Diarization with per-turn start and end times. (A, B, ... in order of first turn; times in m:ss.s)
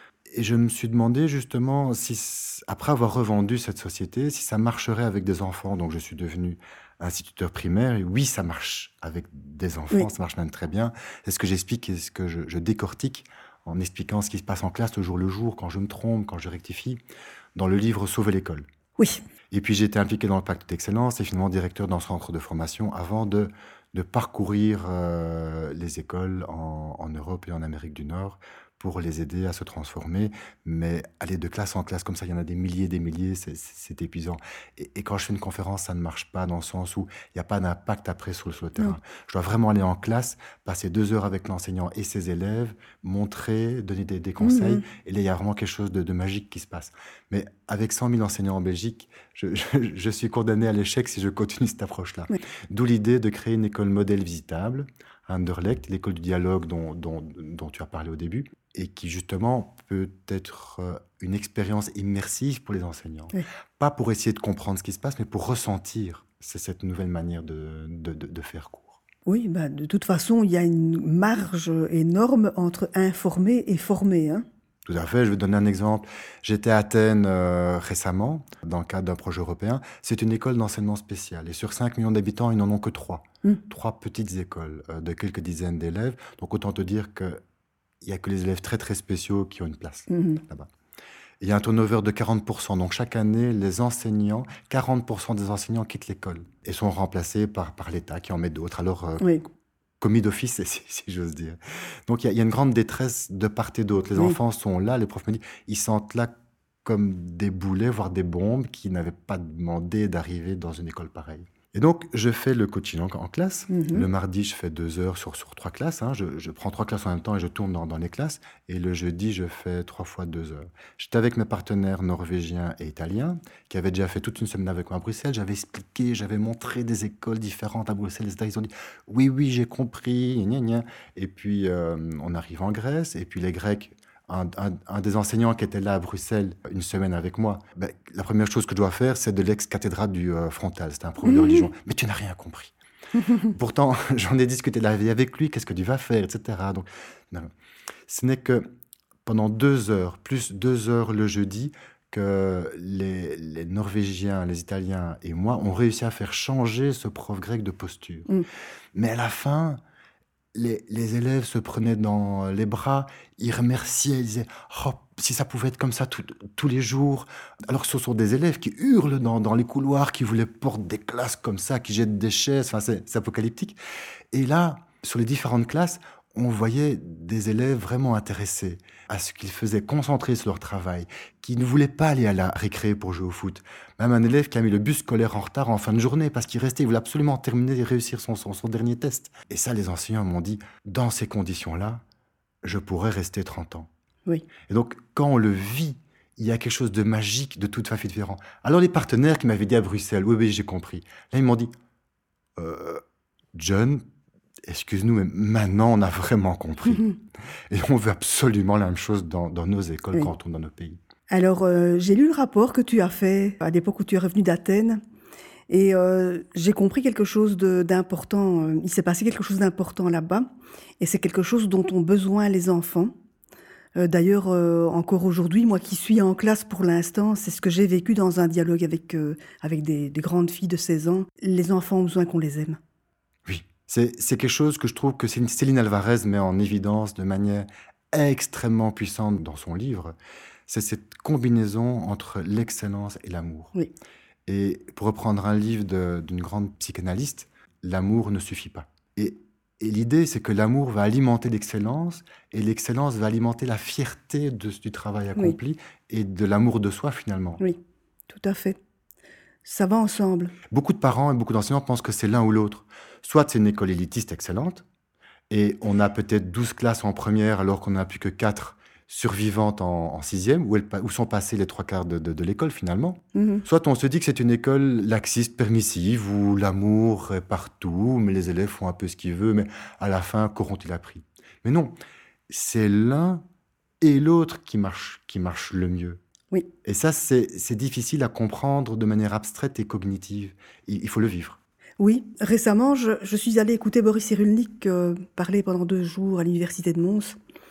0:00.3-0:17.0 A
0:17.6-0:18.7 A
0:19.5-1:09.0 A
0:44.4-0:44.8 B
1:09.2-1:14.4 B
1:14.8-1:27.4 A
1:28.0-1:30.7 A
1:30.1-1:30.4 B
1:31.4-1:39.4 A
1:40.0-1:46.3 A
1:46.8-2:22.7 A
1:53.7-1:54.1 B
2:21.2-2:21.6 B
2:23.2-2:23.5 B
2:23.5-2:27.5 A
2:28.1-2:28.7 A
2:29.2-2:38.3 A
2:38.9-2:39.8 A
2:40.5-2:53.8 A
2:54.3-3:12.0 A
3:12.6-3:13.9 A
3:14.7-3:21.7 A
3:22.6-3:23.0 A
3:23.6-3:24.0 A
3:24.7-3:27.1 A
3:27.7-3:31.0 A
3:31.3-3:35.0 B
3:35.7-3:40.4 B
3:41.0-3:43.1 B
3:44.0-3:52.8 B
3:53.4-4:00.1 A
4:00.7-4:03.7 A
4:04.5-4:17.6 A
4:17.6-4:18.8 B
4:19.6-4:20.5 B
4:20.7-4:24.8 A
4:25.5-4:41.9 A
4:33.3-4:33.6 B
4:42.5-4:43.4 A
4:44.0-4:46.2 A
4:46.8-4:51.6 A
4:52.0-4:57.4 B